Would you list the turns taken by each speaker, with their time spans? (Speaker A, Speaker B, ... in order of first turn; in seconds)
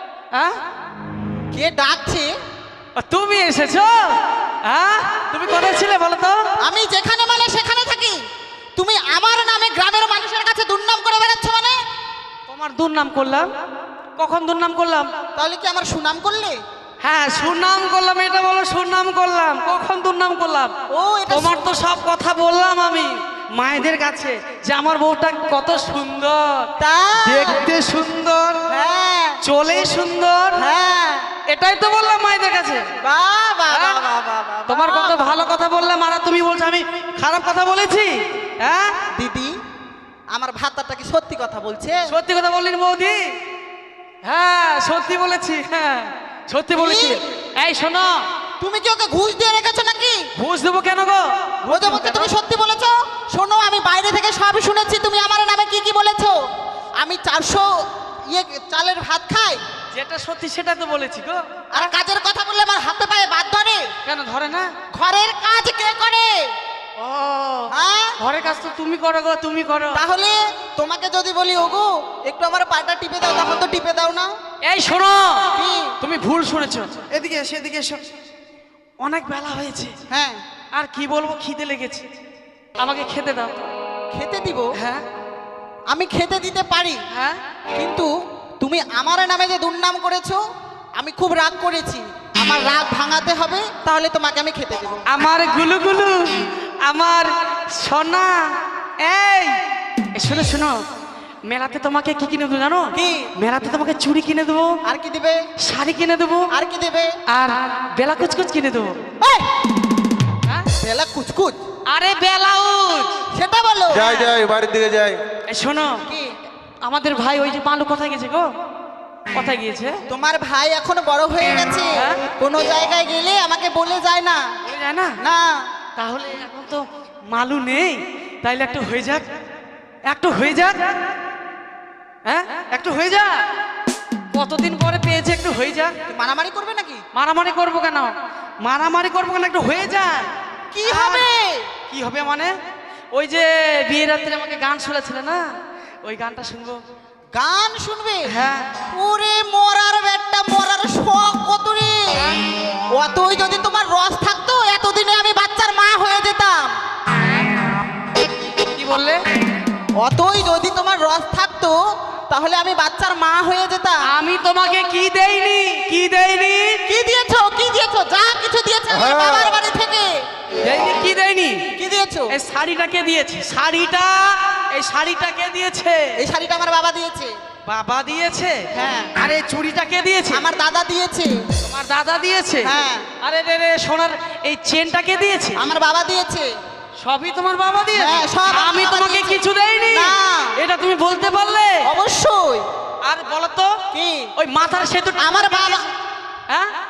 Speaker A: 0.3-0.6, 3.0-6.4, 12.5-13.5, 14.2-15.1, 17.0-20.7, 21.3-26.7, 27.2-28.8, 29.4-30.7, 31.5-32.8, 33.7-34.0, 34.7-39.0, 42.1-43.4, 44.2-48.2, 50.4-52.3, 59.9-61.8, 64.0-64.7, 67.0-70.0, 74.6-77.0, 79.0-79.9, 80.7-82.1, 82.8-83.7, 84.7-85.0, 87.1-87.4, 95.1-99.6, 100.1-100.8, 101.5-104.8, 105.6-106.5, 107.3-109.0, 111.9-113.2, 115.5-116.0, 116.8-118.5, 119.3-120.0, 121.9-122.2, 124.6-125.2, 126.0-129.2, 130.1-130.9, 132.3-133.4, 134.3-135.9, 137.1-140.3, 140.8-141.3, 141.9-142.6, 143.1-145.4, 146.0-146.8, 148.2-148.7, 158.7-159.2, 164.1-166.8, 170.6-171.7, 172.3-176.1, 177.7-180.5, 181.6-185.6, 187.0-191.8, 193.0-193.7, 194.3-195.8
Speaker B: 1.5-2.3, 6.6-8.2, 8.8-11.8, 15.3-16.6, 20.9-21.6, 26.8-27.6, 28.7-29.4, 30.6-31.3, 33.0-35.3, 39.1-39.5, 40.3-42.1, 46.8-47.2, 48.6-50.3, 51.6-56.4, 57.0-57.8, 58.3-59.6, 61.7-63.9, 64.9-66.5, 67.7-68.2, 69.9-74.4, 75.5-75.9, 77.1-77.9, 80.1-80.4, 84.1-84.7, 85.9-87.0, 87.7-90.4, 91.0-95.0, 102.9-103.3, 104.8-105.4, 106.5-107.1, 109.2-109.5, 110.8-111.6, 113.3-114.1, 116.0-116.3, 120.1-124.5, 125.2-125.7, 136.1-137.0, 140.7-141.7, 147.3-148.3, 148.9-152.2, 152.9-156.8, 160.0-164.0, 166.9-170.2, 171.8-172.3, 176.2-177.3, 178.7-179.1, 180.3-181.4, 182.6-183.1, 185.6-186.5, 187.9-190.6, 191.8-192.7, 193.9-194.3, 195.2-195.9
Speaker C: 113.9-115.2, 168.9-169.5